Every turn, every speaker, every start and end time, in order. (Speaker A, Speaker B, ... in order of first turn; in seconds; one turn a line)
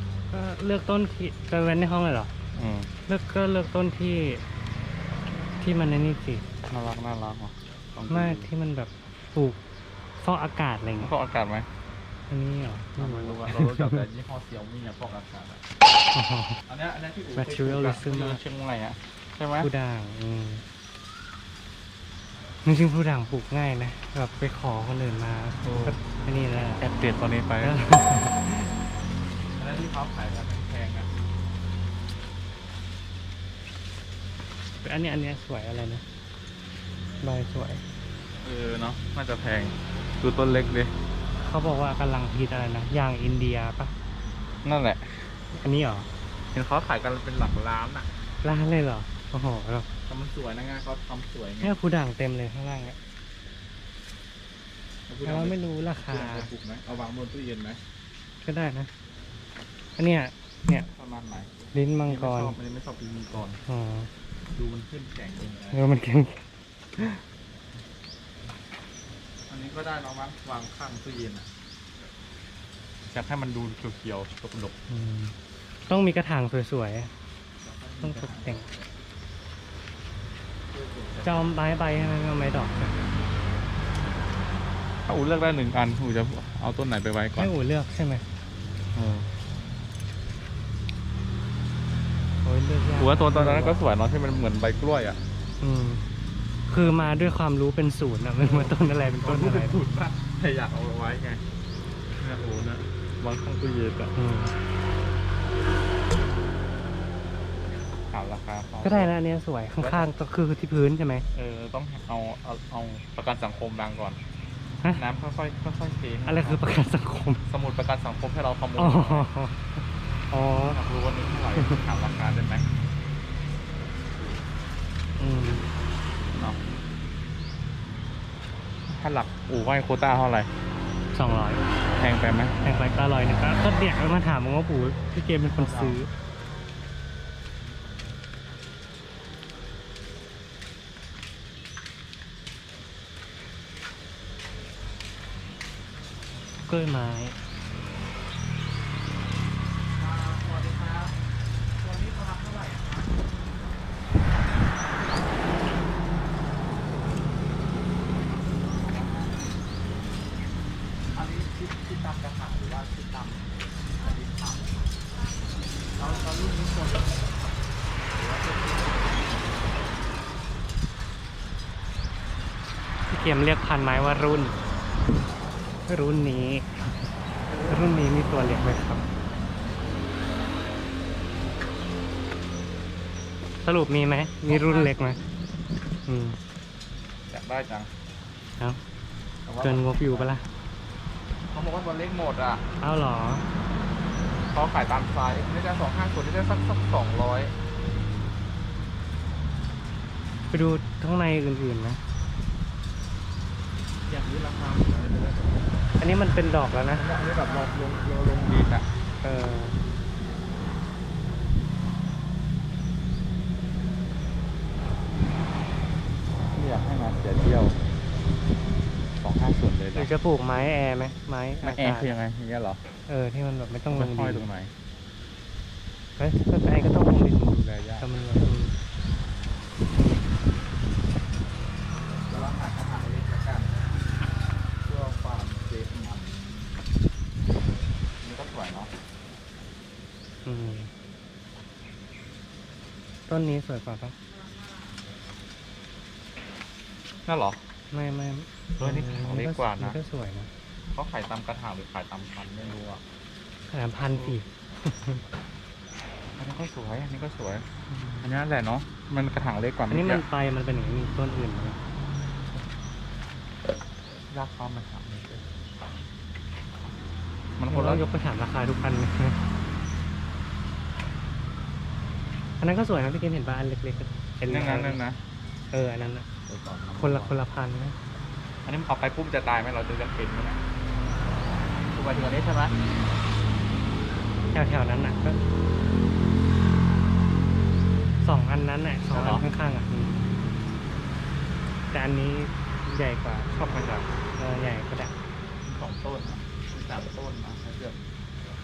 Speaker A: 0.3-2.3
Speaker B: 2.5-2.9
Speaker A: 3.1-4.4
Speaker A: 5.6-6.5
Speaker B: 6.7-8.5
Speaker A: 8.1-9.6
Speaker A: 10.2-11.1
Speaker B: 11.0-11.7
Speaker A: 12.3-14.1
Speaker B: 13.0-15.6
Speaker A: 16.1-16.6
Speaker B: 16.7-19.7
Speaker A: 17.3-18.4
Speaker A: 19.6-20.6
Speaker A: 22.6-26.9
Speaker B: 25.6-26.0
Speaker B: 26.8-27.9
Speaker A: 27.6-28.8
Speaker B: 29.6-31.1
Speaker A: 34.8-36.0
Speaker A: 37.2-37.8
Speaker B: 38.4-40.9
Speaker A: 41.4-43.9
Speaker B: 44.6-45.3
Speaker A: 45.5-46.1
Speaker B: 46.5-48.1
Speaker A: 48.4-49.9
Speaker B: 50.1-51.8
Speaker A: 51.6-53.0
Speaker B: 55.1-57.8
Speaker A: 55.2-56.5
Speaker A: 58.4-58.9
Speaker A: 60.0-60.9
Speaker B: 60.9-63.6
Speaker A: 61.7-62.6
Speaker A: 63.7-64.1
Speaker B: 64.5-65.8
Speaker A: 65.7-66.4
Speaker A: 67.0-67.2
Speaker B: 69.5-71.5
Speaker B: 73.1-74.8
Speaker A: 74.9-75.3
Speaker A: 75.9-77.1
Speaker B: 77.6-78.8
Speaker A: 78.0-78.7
Speaker B: 80.7-81.5
Speaker A: 81.2-83.1
Speaker B: 85.1-87.5
Speaker A: 87.4-88.2
Speaker B: 89.0-89.3
Speaker A: 92.4-93.8
Speaker B: 93.0-95.2
Speaker A: 95.6-96.0
Speaker A: 96.7-99.8
Speaker B: 98.4-101.4
Speaker B: 102.2-104.2
Speaker A: 104.2-104.5
Speaker B: 108.1-109.1
Speaker A: 108.8-111.3
Speaker B: 109.8-110.1
Speaker B: 111.3-114.2
Speaker B: 114.9-116.7
Speaker A: 116.3-117.4
Speaker B: 117.5-119.3
Speaker A: 118.8-120.8
Speaker B: 120.7-122.7
Speaker A: 121.5-121.8
Speaker A: 125.2-125.7
Speaker B: 126.3-126.6
Speaker B: 128.9-130.5
Speaker A: 131.1-131.9
Speaker B: 131.9-132.6
Speaker A: 132.6-136.1
Speaker B: 135.6-136.0
Speaker A: 146.7-147.4
Speaker B: 150.0-151.1
Speaker B: 151.8-153.1
Speaker B: 158.8-159.4
Speaker B: 161.2-164.8
Speaker B: 166.0-167.3
Speaker B: 168.1-169.3
Speaker A: 173.1-174.6
Speaker A: 175.9-176.9
Speaker A: 177.6-179.1
Speaker A: 183.6-185.2
Speaker B: 184.5-184.9
Speaker A: 186.1-186.4
Speaker B: 187.3-187.9
Speaker B: 189.4-190.4
Speaker A: 189.6-190.4
Speaker B: 191.5-192.6
Speaker A: 192.8-193.5
Speaker B: 194.5-197.5
Speaker A: 200.5-202.0
Speaker B: 204.1-205.6
Speaker A: 206.0-207.1
Speaker B: 206.9-208.9
Speaker A: 209.2-209.8
Speaker B: 216.5-217.8
Speaker B: 219.2-220.1
Speaker A: 219.9-222.1
Speaker B: 221.6-222.8
Speaker A: 223.1-224.5
Speaker B: 223.9-224.7
Speaker A: 226.2-228.8
Speaker B: 227.0-228.1
Speaker B: 232.2-233.7
Speaker B: 234.8-236.8
Speaker B: 238.2-238.9
Speaker A: 240.4-240.9
Speaker A: 243.3-244.2
Speaker B: 247.3-247.6
Speaker A: 247.9-250.5
Speaker B: 248.8-250.0
Speaker B: 250.9-253.0
Speaker A: 253.7-255.2
Speaker B: 254.1-254.4
Speaker B: 256.4-257.7
Speaker A: 257.9-258.2
Speaker B: 258.2-260.2
Speaker A: 259.9-261.8
Speaker B: 264.3-265.4
Speaker B: 267.6-268.0
Speaker A: 267.7-269.4
Speaker A: 272.6-275.0
Speaker B: 274.5-275.2
Speaker A: 275.7-276.3
Speaker B: 276.5-277.4
Speaker A: 277.0-278.0
Speaker B: 278.6-280.6
Speaker B: 281.9-282.8
Speaker A: 284.5-285.4
Speaker A: 288.2-290.4
Speaker B: 289.1-289.5
Speaker A: 291.9-293.8
Speaker B: 293.5-294.1
Speaker A: 294.4-295.1
Speaker B: 295.6-298.0